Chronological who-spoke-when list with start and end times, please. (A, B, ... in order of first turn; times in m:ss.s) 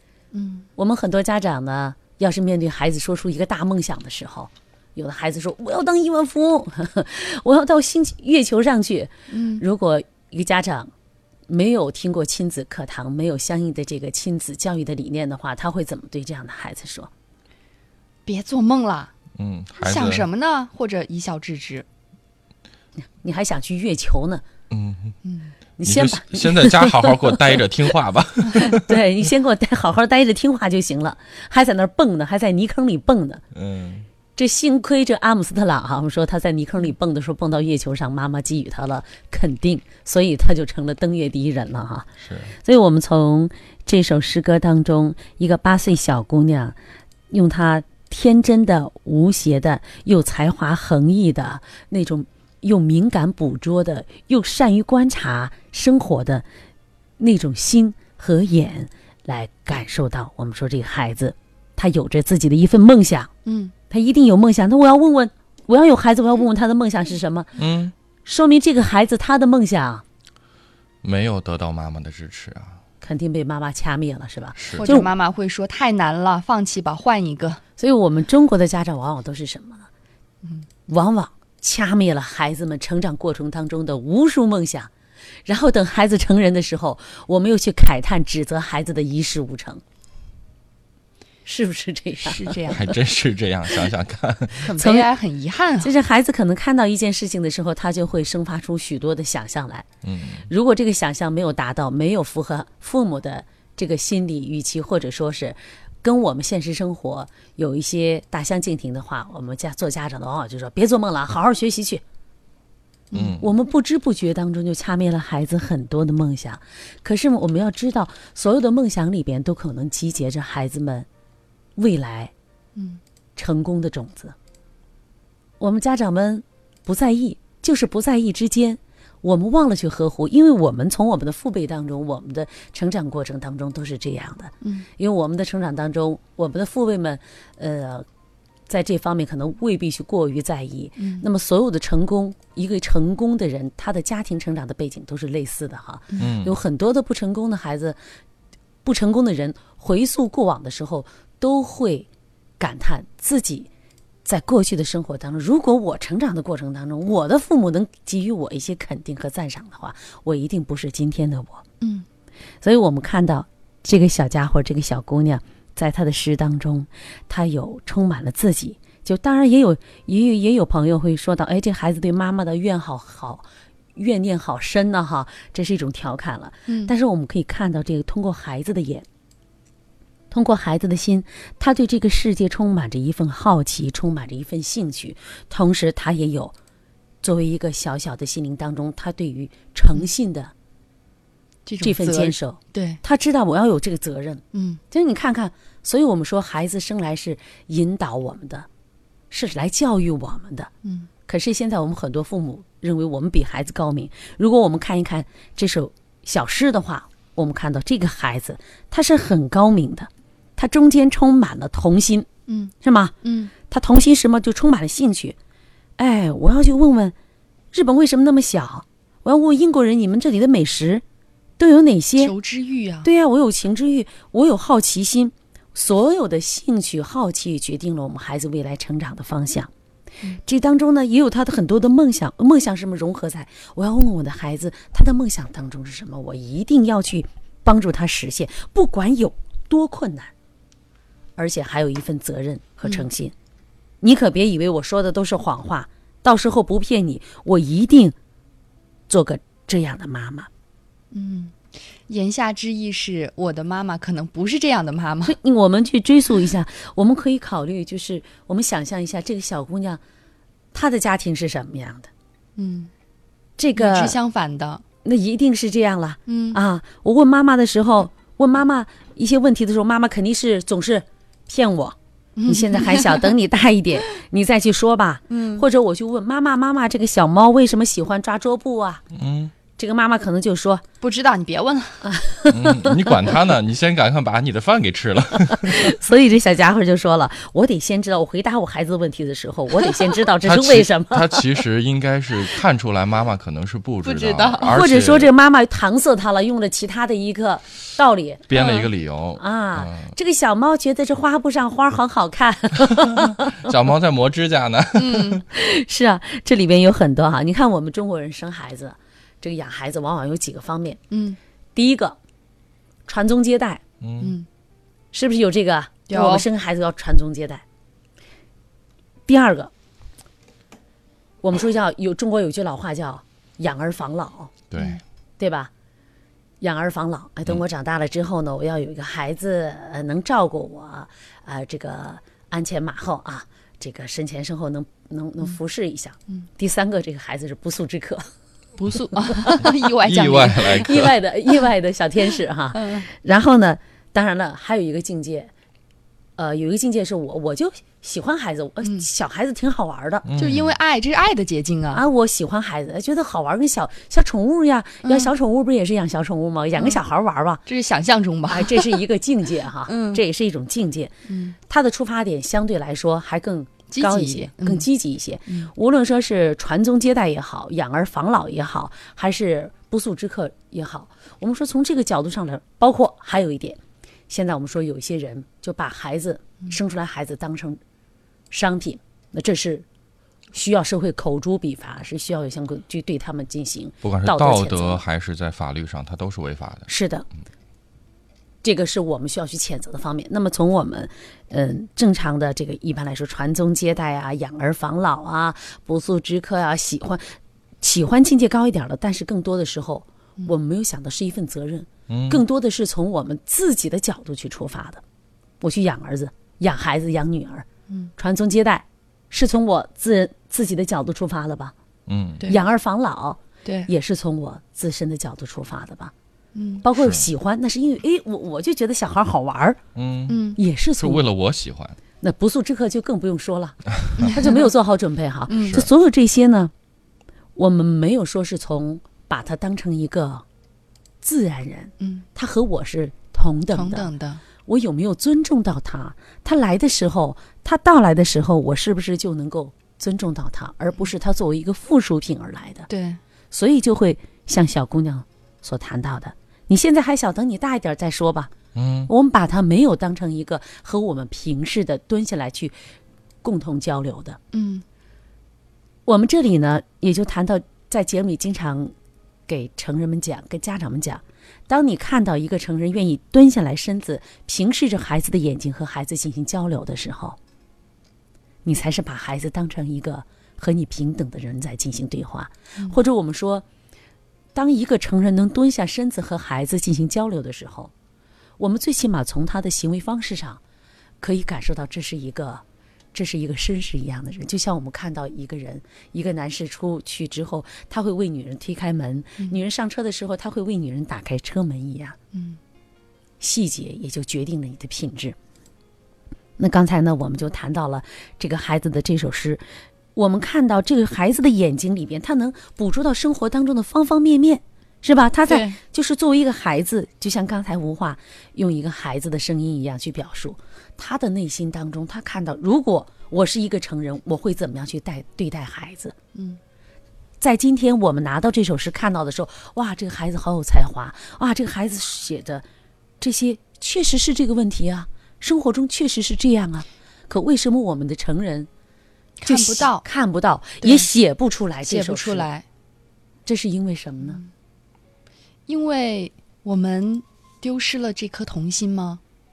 0:00.3-0:00.7 A
0:00.8-0:10.9 B
0:09.3-0:09.6 A
0:11.5-0:17.1 B
0:18.2-0:19.1 A
0:19.4-0:20.2 C
0:19.8-0:21.9 A
0:23.2-0:24.4 B
0:24.7-0:25.2 C
0:25.2-0:25.5 A
0:25.8-0:27.6 B
0:25.8-0:29.0 C
0:28.7-0:33.4 B
0:33.5-0:34.1 C
0:34.4-0:46.8 B
0:42.2-0:42.5 C
0:47.3-0:56.4 B
0:57.2-1:03.3 B
1:03.4-1:03.7 A
1:03.9-1:07.6 B
1:07.6-1:07.9 C
1:08.2-1:10.0 B
1:11.0-1:12.8 C
1:13.0-1:15.1 B
1:14.6-1:14.9 C
1:14.8-1:17.6 A
1:17.8-1:19.9 B
1:20.9-1:24.9 B
1:25.4-1:29.8 B
1:31.4-1:32.6 B
1:32.2-1:32.9 A
1:32.7-1:34.7 C
1:34.6-1:35.9 A
1:34.8-1:35.1 B
1:35.8-1:39.9 B
1:40.0-1:40.4 C
1:40.5-1:52.0 B
1:53.1-1:53.4 A
1:53.1-1:53.4 C
1:53.4-2:01.1 B
2:01.8-2:02.3 B
2:03.4-2:04.4 B
2:05.6-2:18.1 B
2:14.6-2:14.9 A
2:18.7-2:28.0 B
2:21.0-2:21.2 A
2:26.2-2:26.6 C
2:28.8-2:32.1 B
2:32.6-2:33.7 B
2:34.2-2:41.6 B
2:42.6-2:59.1 B
2:56.7-2:56.9 A
3:00.3-3:06.5 B
3:07.2-3:10.5 B
3:11.6-3:13.0 A
3:11.8-3:18.7 B
3:14.5-3:14.8 A
3:19.3-3:20.7 B
3:21.3-3:32.3 B
3:32.5-3:33.5 A
3:32.8-3:35.4 B
3:36.0-3:37.1 B
3:37.7-3:41.0 B
3:41.6-3:42.3 B
3:42.2-3:43.1 A
3:43.0-3:49.7 B
3:50.4-4:00.3 B
4:01.4-4:03.3 B
4:04.0-4:08.2 B
4:09.1-4:10.5 B
4:11.1-4:11.5 A
4:12.1-4:15.4 A
4:15.2-4:20.0 B
4:20.7-4:22.1 B
4:22.6-4:22.9 A
4:23.6-4:24.2 B
4:23.8-4:24.8 A
4:25.0-4:39.0 B
4:26.3-4:26.6 A
4:32.4-4:33.4 A
4:35.3-4:35.6 A
4:39.1-4:39.5 C
4:39.8-4:40.8 B
4:41.0-4:42.0 A
4:42.0-4:43.3 B
4:42.5-4:46.0 C
4:45.5-4:51.5 B
4:50.4-4:55.3 C
4:54.0-4:54.8 A
4:54.6-4:58.5 B
4:58.5-5:00.1 C
4:58.5-4:58.9 A
4:59.4-5:03.7 B
5:02.8-5:05.4 C
5:05.0-5:05.4 A
5:05.5-5:11.0 B
5:11.1-5:11.4 A
5:11.8-5:12.2 B
5:13.0-5:13.8 B
5:14.0-5:14.4 C
5:14.2-5:14.5 A
5:15.1-5:17.6 B
5:16.1-5:16.5 A
5:19.3-5:19.7 B
5:21.4-5:24.5 B
5:24.7-5:25.0 C
5:25.4-5:25.7 B
5:26.6-5:38.3 B
5:38.8-5:41.0 A
5:39.6-5:41.1 C
5:40.8-5:45.5 B
5:42.8-5:43.0 A
5:46.4-5:50.3 B
5:48.8-5:49.0 A
5:50.2-5:50.7 C
5:50.4-5:52.0 A
5:51.9-5:57.6 B
5:55.0-5:55.3 A
5:57.6-5:59.0 A
5:58.5-6:01.1 B
5:59.9-6:00.2 A
6:01.3-6:01.6 A
6:01.7-6:17.8 B
6:03.9-6:04.9 A
6:18.5-6:19.8 B
6:20.5-6:25.0 B
6:24.0-6:26.9 C
6:26.9-6:27.3 B
6:28.6-6:45.0 B
6:42.1-6:42.4 C
6:45.6-6:47.6 B
6:48.2-6:51.7 B
6:52.1-6:52.4 C
6:52.4-6:56.1 B
6:56.5-6:56.8 A
6:56.8-6:59.8 B
6:56.9-6:57.3 C
7:00.0-7:00.4 C
7:00.3-7:00.6 A
7:00.6-7:01.2 B
7:01.0-7:02.0 C
7:02.2-7:06.7 B
7:04.2-7:04.7 A
7:05.5-7:05.8 A
7:05.6-7:05.9 C
7:07.6-7:10.4 B
7:11.2-7:14.1 B
7:12.0-7:12.2 A
7:13.7-7:14.4 A
7:14.6-7:22.9 B
7:22.9-7:23.2 A
7:23.5-7:28.5 B
7:28.8-7:29.1 C
7:29.1-7:32.8 B
7:33.4-7:34.4 B
7:34.5-7:34.8 A
7:36.0-7:38.9 B
7:39.5-7:47.4 B
7:48.6-7:53.6 B
7:54.5-7:57.9 B
7:58.6-8:00.6 B
8:01.2-8:02.6 B
8:03.1-8:12.2 B
8:13.4-8:15.4 B
8:16.6-8:19.6 B
8:20.1-8:36.2 B
8:25.5-8:25.8 A
8:37.4-8:42.6 B
8:43.2-8:48.7 B
8:49.4-8:50.0 A
8:49.4-8:52.5 B
8:50.8-8:51.1 A
8:51.8-8:52.6 A
8:53.5-8:54.4 B
8:55.7-8:59.2 A